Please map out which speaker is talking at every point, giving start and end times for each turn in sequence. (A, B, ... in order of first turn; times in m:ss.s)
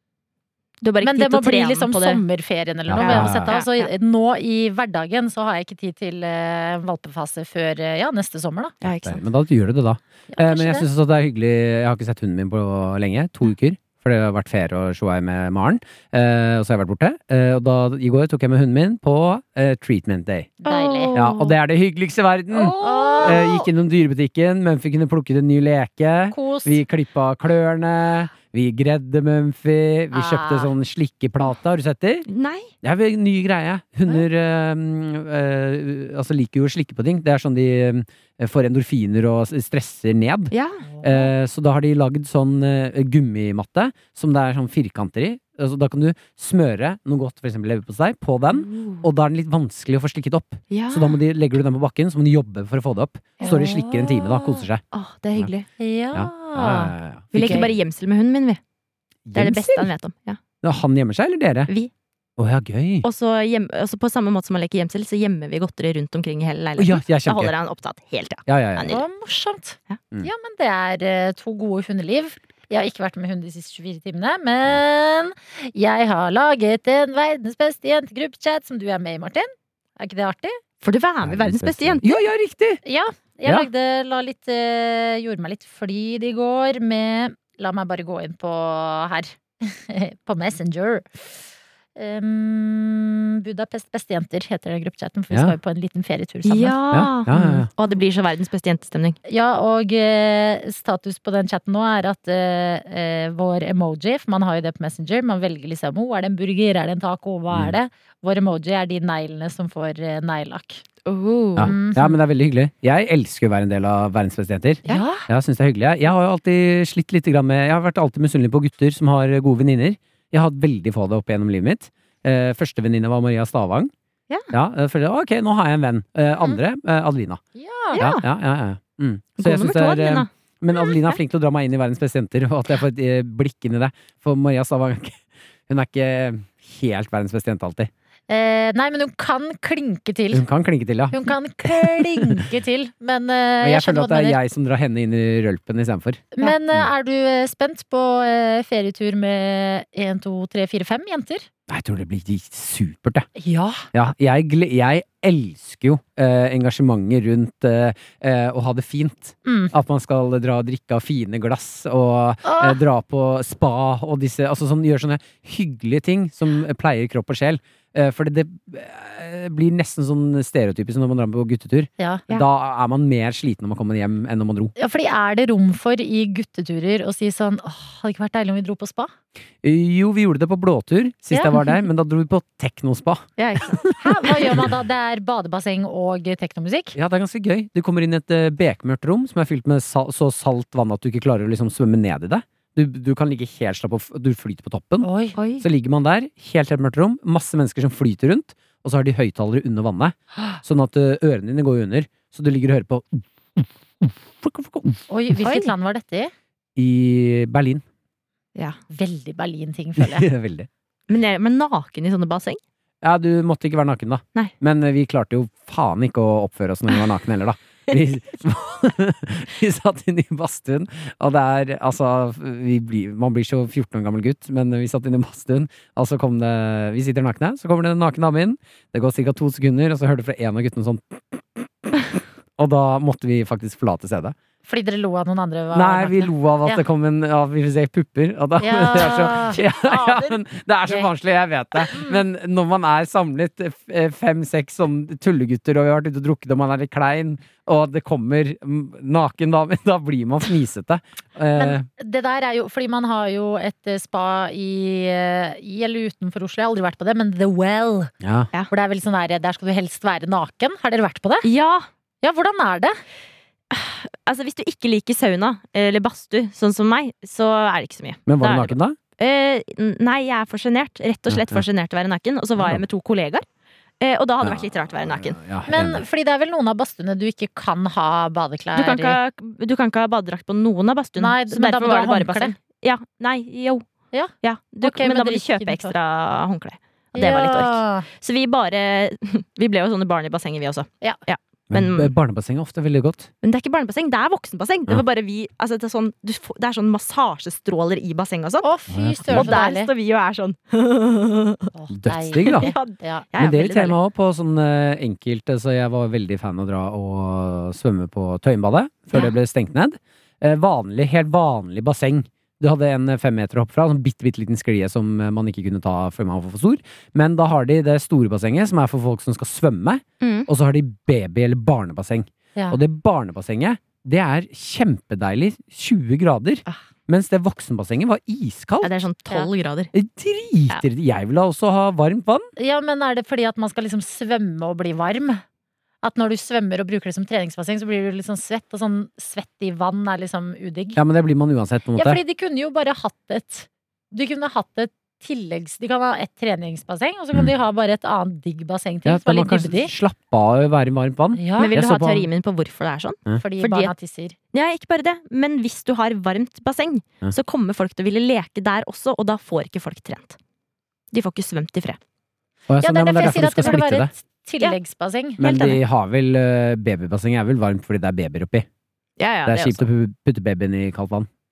0:00.8-0:02.2 A
0:01.0-0:08.8 B
0:02.9-0:03.6 C
0:03.0-0:03.9 A
0:08.8-0:09.2 A
0:08.9-0:20.6 C
0:10.3-0:10.9 B
0:20.6-0:21.1 B
0:20.6-0:21.6 A
0:21.1-0:32.3 C
0:22.6-0:23.5 A
0:22.7-0:23.7 B
0:26.3-0:26.8 B
0:30.1-0:30.7 B
0:32.3-0:32.7 A
0:32.8-0:54.8 C
0:40.5-0:40.8 A
0:40.8-0:41.3 B
0:48.6-0:49.0 A
0:50.7-0:51.2 A
0:53.4-0:54.6 B
0:54.9-0:55.7 A
0:55.8-0:57.7 B
0:56.1-0:57.8 C
0:57.3-0:58.6 A
0:59.2-0:59.9 C
0:59.4-1:00.4 A
1:00.6-1:01.7 C
1:02.4-1:03.0 C
1:03.0-1:09.0 A
1:06.8-1:07.5 C
1:08.5-1:08.9 C
1:08.9-1:20.6 B
1:20.8-1:22.2 A
1:21.2-1:22.8 C
1:22.8-1:31.4 B
1:32.0-1:36.8 B
1:35.3-1:35.6 C
1:36.4-1:39.2 A
1:36.9-1:37.7 C
1:39.3-1:50.8 B
1:51.1-1:51.7 A
1:51.6-2:03.9 C
1:51.6-1:52.2 B
1:54.9-1:55.2 B
2:04.5-2:07.4 C
2:07.6-2:08.0 B
2:07.9-2:08.2 A
2:08.0-2:17.9 C
2:09.4-2:11.2 A
2:18.3-2:20.4 B
2:20.3-2:22.4 C
2:21.1-2:24.4 B
2:23.6-2:26.9 C
2:26.4-2:31.5 B
2:31.7-2:33.3 C
2:33.4-2:33.9 B
2:33.9-2:54.7 C
2:39.4-2:39.7 B
2:42.4-2:42.8 B
2:52.0-2:52.2 B
2:54.8-2:59.1 B
2:59.6-3:04.6 C
3:03.4-3:04.5 A
3:03.8-3:06.9 B
3:06.9-3:25.0 C
3:15.0-3:15.4 B
3:15.4-3:15.6 A
3:25.1-3:26.3 B
3:25.4-3:25.7 A
3:26.8-3:27.8 C
3:28.9-3:30.3 B
3:30.0-3:30.7 C
3:31.1-3:32.6 A
3:33.0-3:54.4 C
3:54.6-3:56.8 B
3:55.7-4:11.9 C
3:58.6-3:59.6 B
3:59.6-4:00.3 A
4:01.9-4:02.2 B
4:11.6-4:18.1 B
4:18.2-4:18.5 C
4:18.7-4:21.5 B
4:21.4-4:21.9 A
4:22.2-4:23.0 B
4:23.7-4:33.4 A
4:28.3-4:29.0 C
4:31.3-4:31.6 C
4:32.6-4:32.8 C
4:34.0-4:35.4 A
4:34.4-4:36.0 C
4:35.7-4:39.2 B
4:38.7-4:43.8 A
4:41.2-4:42.6 B
4:44.1-4:45.9 B
4:44.4-4:52.1 A
4:47.1-4:48.1 B
4:51.7-4:53.3 C
4:53.4-4:58.7 A
4:58.6-4:59.9 B
4:58.9-4:59.6 C
4:59.3-5:01.7 A
5:01.7-5:03.2 B
5:01.9-5:02.7 C
5:02.4-5:04.0 A
5:03.4-5:28.9 C
5:20.2-5:20.5 A
5:28.8-5:29.9 A
5:29.9-5:32.5 C
5:32.6-5:35.4 B
5:36.0-5:41.0 B
5:40.9-5:42.2 C
5:42.0-5:49.9 B
5:49.1-5:52.3 C
5:51.4-5:51.7 B
5:51.6-5:53.9 A
5:53.4-5:54.4 B
5:54.5-6:00.4 A
6:01.1-6:02.0 A
6:02.7-6:04.1 C
6:02.8-6:05.4 B
6:05.4-6:08.7 C
6:05.4-6:05.8 A
6:09.2-6:09.8 A
6:09.4-6:11.3 C